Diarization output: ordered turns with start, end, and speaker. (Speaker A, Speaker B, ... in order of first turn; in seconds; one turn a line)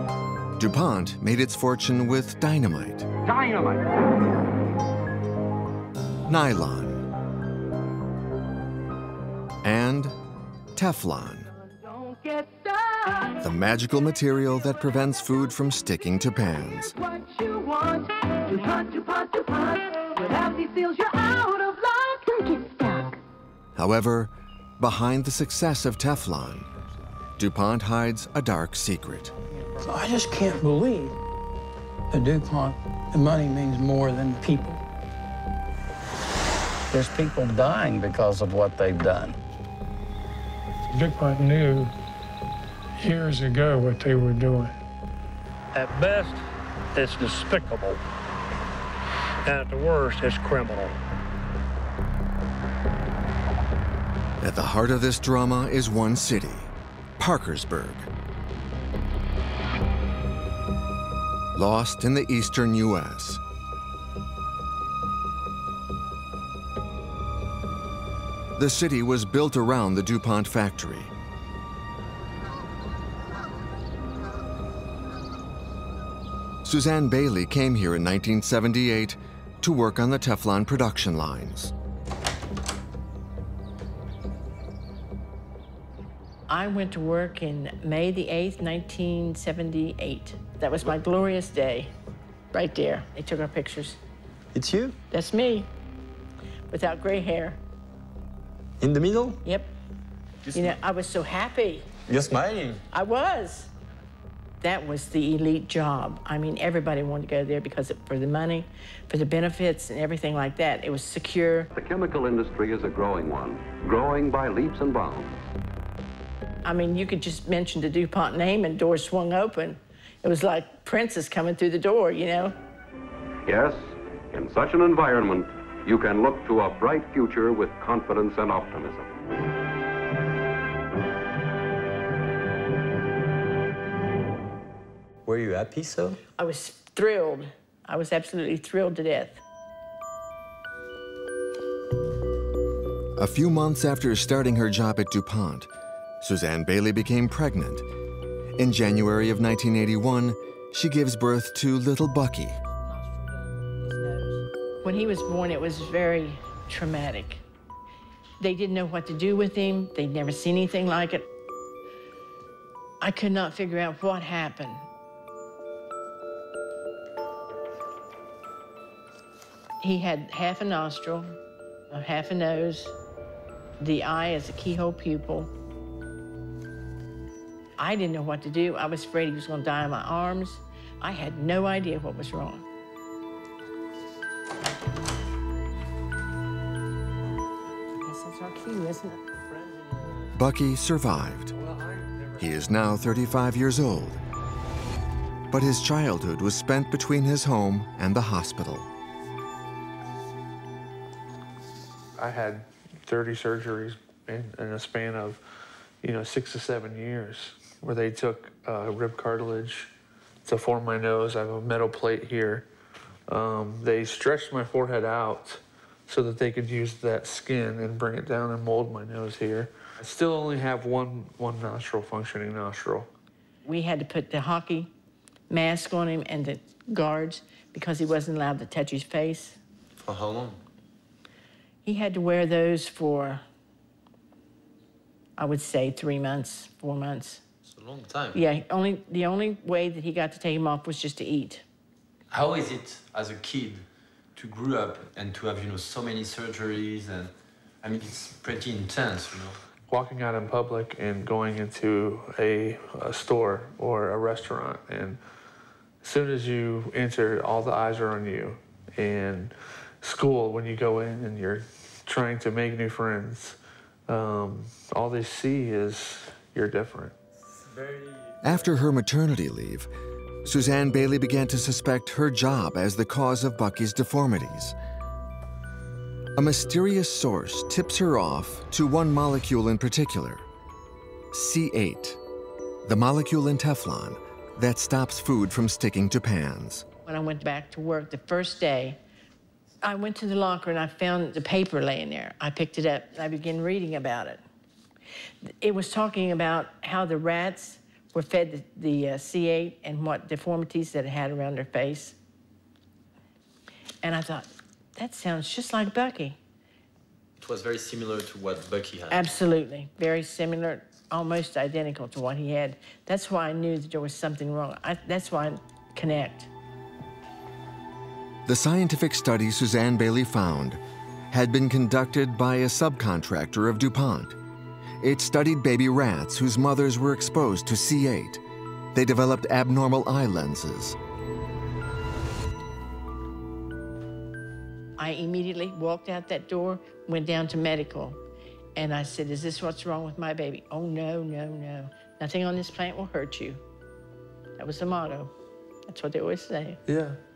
Speaker A: 0.6-3.1
Speaker A: 6.3-7.0
Speaker A: 9.6-10.2
Speaker A: 10.7-11.5
Speaker A: 13.4-16.9
Speaker A: 23.7-26.7
Speaker A: 27.4-29.3
Speaker B: 29.8-31.2
Speaker B: 32.1-34.8
Speaker C: 36.9-39.4
Speaker D: 40.9-41.9
Speaker D: 43.0-44.8
Speaker E: 45.7-46.4
Speaker E: 46.9-48.0
Speaker E: 49.4-51.0
Speaker A: 54.4-58.1
Speaker A: 61.5-63.4
Speaker A: 68.5-71.1
Speaker A: 76.6-81.7
Speaker F: 86.5-91.9
Speaker F: 92.5-94.0
Speaker G: 94.5-95.0
Speaker F: 95.1-95.7
Speaker F: 96.7-97.6
Speaker G: 98.8-99.4
Speaker F: 99.4-99.7
Speaker F: 100.5-101.8
Speaker G: 102.1-102.8
Speaker F: 102.9-103.7
Speaker F: 104.6-111.7
Speaker H: 111.7-115.4
Speaker F: 116.6-122.5
Speaker H: 123.4-129.1
Speaker G: 135.2-136.2
Speaker F: 136.4-139.4
Speaker A: 143.2-145.7
Speaker A: 146.2-147.9
Speaker A: 148.6-152.6
Speaker F: 154.8-157.4
Speaker F: 158.4-161.2
Speaker F: 163.0-164.8
Speaker F: 169.8-171.3
Speaker F: 171.9-172.9
Speaker F: 173.8-175.5
Speaker F: 177.8-182.6
Speaker A: 190.3-191.5
Speaker A: 192.4-194.2
Speaker A: 195.5-198.9
Speaker I: 202.2-205.4
Speaker I: 206.0-209.9
Speaker I: 210.4-212.7
Speaker I: 213.3-223.1
Speaker F: 223.7-224.9
Speaker F: 225.5-229.6
Speaker G: 230.0-230.6
Speaker F: 231.8-233.4
Speaker F: 235.4-237.4
Speaker F: 238.3-241.6
Speaker G: 242.3-243.8
Speaker G: 244.4-247.3
Speaker G: 247.8-249.6
Speaker I: 249.9-255.2
Speaker I: 256.0-267.1
Speaker A: 268.4-269.9
Speaker A: 270.4-274.7
Speaker A: 276.4-280.4
Speaker A: 281.3-282.2
Speaker A: 282.8-286.9
Speaker F: 287.1-289.0
Speaker F: 289.8-294.4
Speaker F: 295.4-302.1
Speaker F: 304.0-306.4
Speaker G: 307.4-309.3
Speaker F: 309.1-316.5
Speaker A: 318.4-324.4
Speaker A: 325.0-328.4
Speaker A: 328.9-330.9
Speaker F: 335.0-338.2
Speaker F: 338.8-343.6
Speaker F: 344.6-345.3
Speaker F: 345.9-346.8
Speaker I: 346.9-347.2